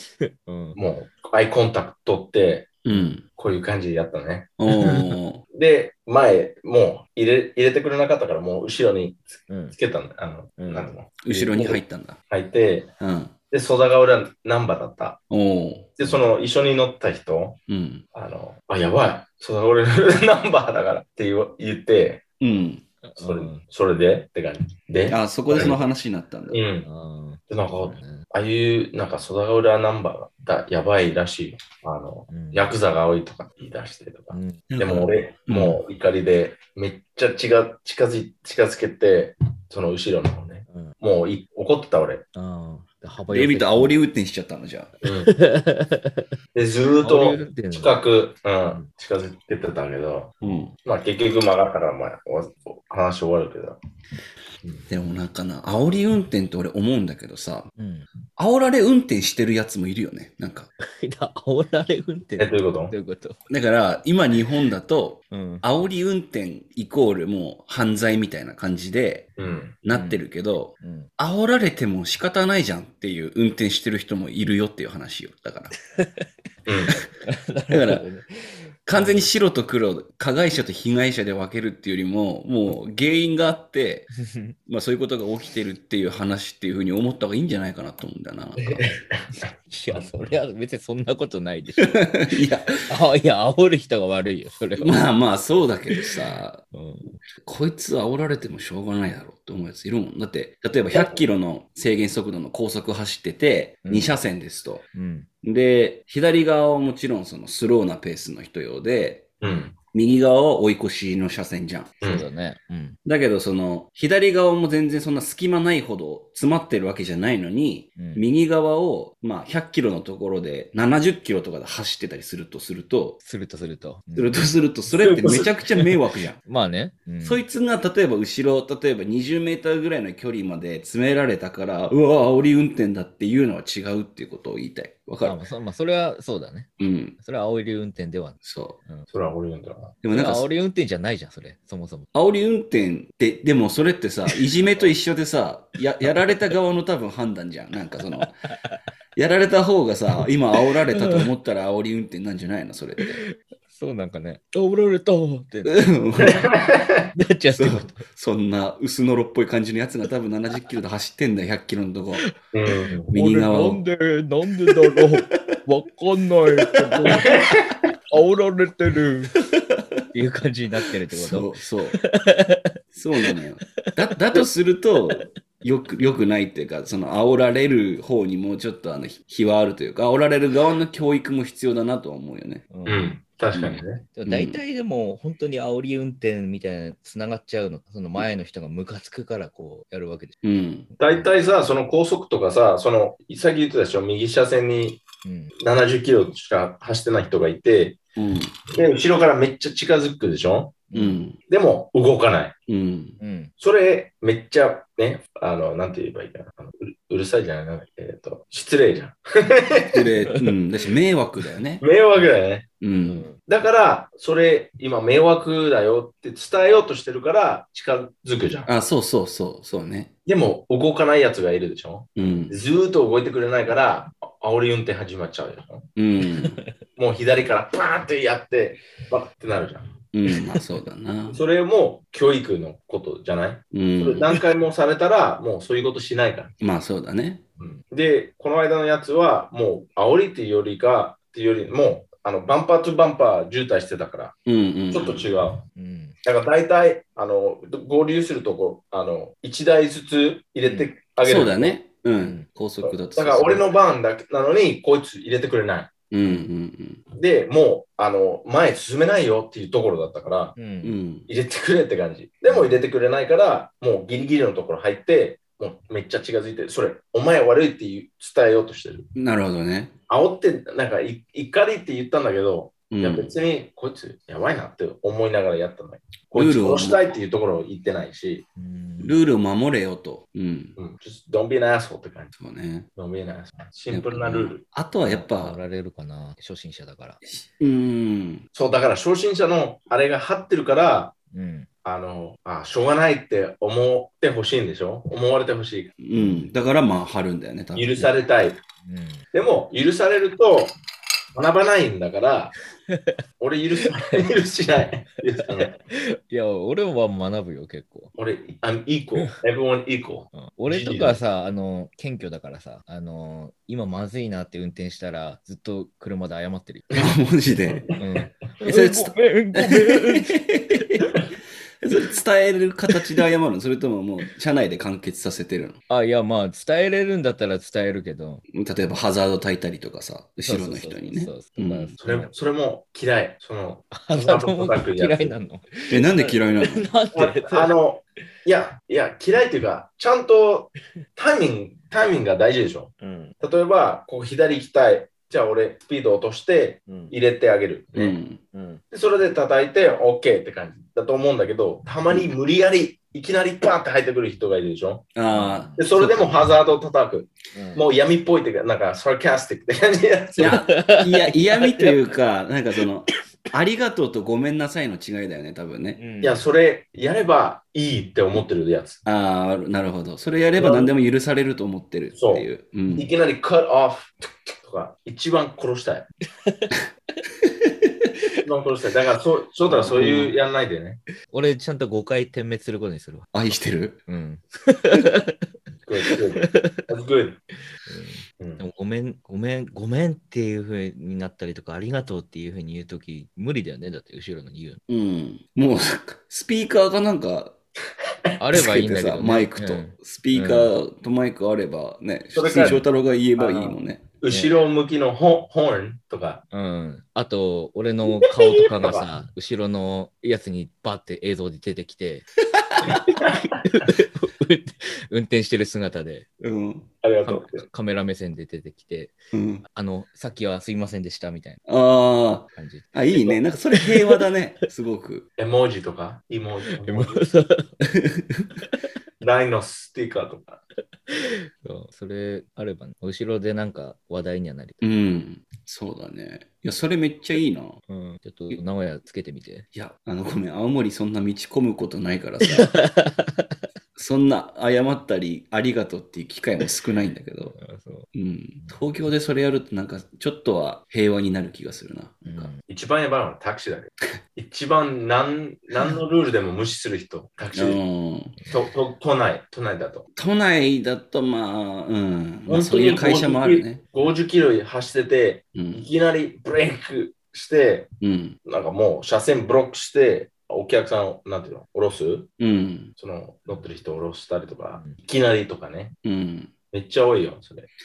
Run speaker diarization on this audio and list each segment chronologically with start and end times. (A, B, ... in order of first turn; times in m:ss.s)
0:00.2-0:00.8 A
0:00.8-0:02.8 B
0:02.8-0:03.2 C
0:03.4-0:04.6 B
0:04.6-0:05.4 C
0:05.5-0:12.9 B
0:09.5-0:09.8 A
0:10.6-0:11.6 A
0:11.2-0:12.2 C
0:13.0-0:13.3 C
0:13.5-0:15.2 B
0:15.3-0:15.9 C
0:16.0-0:17.6 B
0:17.7-0:18.0 C
0:18.1-0:22.2 B
0:22.4-0:22.8 C
0:23.0-0:23.6 A
0:23.2-0:25.8 B
0:25.1-0:26.6 C
0:26.5-0:26.9 B
0:26.8-0:28.3 A
0:27.5-0:42.2 B
0:32.3-0:32.7 A
0:34.3-0:34.6 A
0:34.7-0:35.8 C
0:42.4-0:44.0 A
0:43.3-0:44.9 C
0:45.0-0:45.3 B
0:45.3-0:46.3 A
0:46.5-0:50.3 B
0:47.0-0:48.0 A
0:50.4-0:50.7 C
0:50.8-0:53.8 B
0:54.9-0:57.7 C
0:57.8-0:58.1 A
0:58.4-1:00.7 C
1:00.8-1:03.4 A
1:02.4-1:02.9 B
1:03.5-1:15.8 C
1:05.3-1:05.6 A
1:09.4-1:09.8 B
1:09.9-1:10.2 A
1:10.8-1:11.1 A
1:16.0-1:16.3 A
1:16.7-1:17.0 B
1:17.2-1:19.3 A
1:17.7-1:18.0 C
1:18.9-1:24.1 C
1:24.3-1:24.6 A
1:24.7-1:28.9 C
1:28.9-1:29.2 B
1:29.7-1:32.1 A
1:31.8-1:32.7 C
1:32.9-1:35.0 A
1:34.8-1:36.6 C
1:36.7-1:37.2 A
1:37.4-1:44.8 C
1:43.8-1:44.2 A
1:44.9-1:45.3 A
1:45.4-1:49.3 C
1:49.4-1:49.8 B
1:49.9-1:51.9 C
1:52.0-1:53.0 A
1:53.0-2:03.2 C
1:58.0-1:58.2 A
2:03.2-2:04.5 A
2:04.2-2:06.4 C
2:04.9-2:05.8 B
2:06.4-2:07.4 A
2:07.2-2:15.4 C
2:15.2-2:19.1 A
2:16.8-2:17.2 C
2:18.4-2:18.8 C
2:19.1-2:20.0 B
2:20.0-2:20.5 C
2:20.1-2:22.1 A
2:22.1-2:28.4 C
2:24.3-2:24.9 A
2:28.2-2:28.7 A
2:29.2-2:33.2 C
2:30.9-2:31.3 A
2:33.3-2:35.8 A
2:35.6-2:36.5 C
2:36.2-2:37.1 B
2:37.2-2:38.0 A
2:37.6-2:42.3 C
2:42.5-2:43.1 B
2:42.9-2:47.4 A
2:43.1-2:43.8 C
2:44.7-2:45.6 C
2:46.7-2:47.1 C
2:47.2-2:47.7 B
2:48.1-2:49.4 A
2:49.5-2:50.0 C
2:50.1-2:52.6 A
2:51.1-2:52.0 C
2:52.9-3:02.7 C
2:53.9-2:54.5 A
3:02.7-3:03.1 A
3:02.9-3:04.0 B
3:03.5-3:04.6 C
3:04.1-3:10.4 A
3:10.4-3:10.9 C
3:11.0-3:15.0 B
3:15.2-3:15.5 A
3:15.6-3:18.0 B
3:18.2-3:18.5 C
3:18.7-3:20.9 B
3:20.9-3:21.2 A
3:20.9-3:21.4 C
3:21.5-3:22.5 B
3:22.7-3:23.2 C
3:23.2-3:23.5 A
3:23.6-3:30.1 B
3:29.9-3:31.8 C
3:31.8-3:32.7 B
3:32.8-3:33.3 C
3:33.1-3:33.4 A
3:33.4-3:38.7 B
3:38.7-3:40.1 C
3:40.3-3:45.9 B
3:42.2-3:42.6 C
3:46.0-3:46.6 C
3:47.0-3:49.9 B
3:50.1-3:51.4 C
3:51.3-3:56.5 B
3:53.7-3:54.4 C
3:56.6-3:57.4 C
3:57.6-4:04.4 B
4:04.5-4:05.3 C
4:04.9-4:05.6 B
4:05.8-4:06.2 A
4:06.2-4:11.8 B
4:11.2-4:13.7 C
4:12.2-4:12.5 A
4:12.8-4:15.9 B
4:16.1-4:17.0 C
4:17.1-4:20.6 B
4:20.6-4:21.0 A
4:20.8-4:21.3 C
4:21.3-4:29.1 B
4:22.5-4:22.8 A
4:29.2-4:29.9 C
4:30.1-4:38.4 B
4:32.9-4:33.3 C
4:36.3-4:37.0 C
4:38.6-4:39.2 A
4:39.0-4:40.8 C
4:40.8-4:42.3 B
4:42.4-4:42.9 C
4:43.0-4:44.6 B
4:43.9-4:45.6 C
4:45.0-4:47.2 A
4:47.3-4:48.4 C
4:48.5-4:51.1 B
4:51.3-4:51.7 A
4:51.8-4:55.9 B
4:56.0-4:58.1 C
4:56.2-4:56.5 A
4:57.8-4:58.6 B
4:58.8-4:59.2 A
4:59.3-5:00.8 B
5:01.3-5:02.5 B
5:02.9-5:03.2 A
5:03.4-5:05.8 B
5:05.4-5:08.1 A
5:08.2-5:11.2 B
5:10.3-5:16.9 A
5:16.9-5:17.9 C
5:17.7-5:18.0 B
5:18.0-5:21.0 A
5:18.6-5:21.1 C
5:21.8-5:25.8 C
5:25.9-5:28.4 A
5:28.5-5:31.9 C
5:30.4-5:32.3 A
5:32.0-5:35.3 B
5:33.9-5:37.7 A
5:35.9-5:36.9 C
5:37.1-5:48.2 B
5:43.0-5:43.4 A
5:46.9-5:47.1 A
5:48.0-5:48.4 C
5:48.5-5:48.8 A
5:48.9-5:55.1 B
5:55.2-5:56.5 C
5:55.3-5:55.8 A
5:55.8-6:00.6 B
5:57.5-5:57.8 A
6:00.4-6:06.0 C
6:00.4-6:02.1 A
6:06.0-6:06.4 A
6:06.2-6:09.0 B
6:09.0-6:13.1 C
6:10.6-6:10.9 B
6:12.1-6:16.1 B
6:16.4-6:16.7 A
6:18.4-6:21.0 B
6:19.7-6:20.3 A
6:20.0-6:20.3 C
6:21.3-6:23.3 A
6:23.3-6:24.0 C
6:24.1-6:25.4 A
6:25.9-6:27.4 B
6:26.0-6:26.8 A
6:27.9-6:34.8 A
6:34.9-6:37.6 C
6:38.4-6:40.7 A
6:38.5-6:44.1 C
6:42.3-6:46.4 B
6:46.5-6:52.3 A
6:48.2-6:49.1 B
6:52.5-6:53.1 C
6:52.9-6:56.3 A
6:53.2-6:53.5 B
6:56.4-6:56.9 C
6:57.0-6:57.7 B
6:57.2-7:01.6 A
6:59.3-6:59.6 C
7:01.7-7:05.3 C
7:02.6-7:03.0 A
7:03.8-7:04.2 A
7:05.4-7:07.3 B
7:06.8-7:07.8 A
7:08.0-7:08.5 C
7:09.2-7:10.6 B
7:11.1-7:14.8 A
7:14.8-7:17.8 C
7:17.9-7:19.7 A
7:19.7-7:22.8 C
7:22.4-7:23.4 A
7:24.0-7:27.6 C
7:27.6-7:28.1 A
7:28.1-7:32.5 C
7:32.2-7:32.6 A
7:32.7-7:37.8 B
7:37.5-7:38.4 C
7:38.5-7:40.1 B
7:40.2-7:43.8 C
7:42.5-7:47.9 B
7:45.6-7:45.9 C
7:48.0-7:48.4 C
7:48.4-7:52.3 B
7:52.4-7:52.9 C
7:53.0-7:56.0 B
7:56.0-7:56.5 C
7:56.7-7:57.7 B